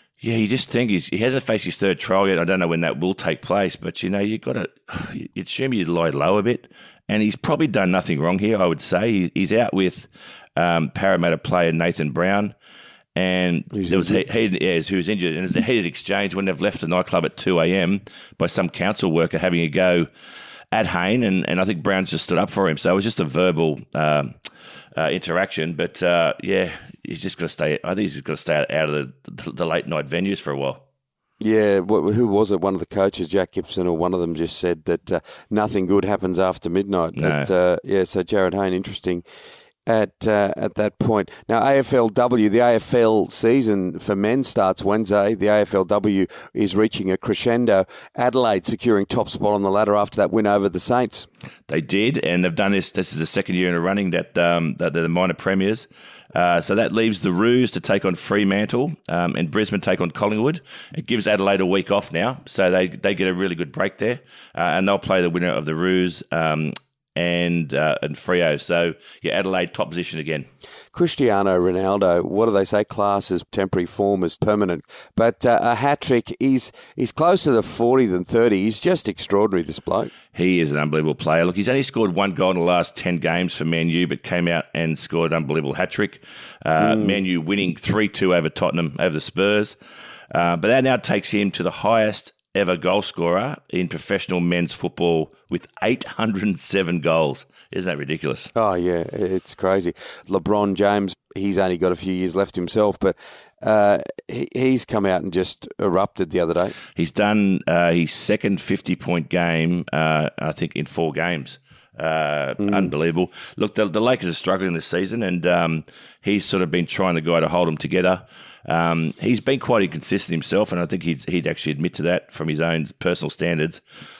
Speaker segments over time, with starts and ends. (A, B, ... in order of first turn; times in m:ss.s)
0:00.2-0:12.5 A
0:13.2-0:20.1 A
0:13.7-0:14.2 B
0:20.7-0:24.3 A
0:25.0-0:30.8 A
0:31.4-0:39.2 B
0:37.2-0:37.5 A
0:39.8-0:51.3 B
0:51.7-1:10.5 A
1:10.9-1:20.1 B
1:20.3-1:29.8 A
1:26.8-1:27.2 B
1:30.3-1:38.5 A
1:38.5-1:46.7 B
1:46.9-2:03.8 A
1:52.6-1:52.9 B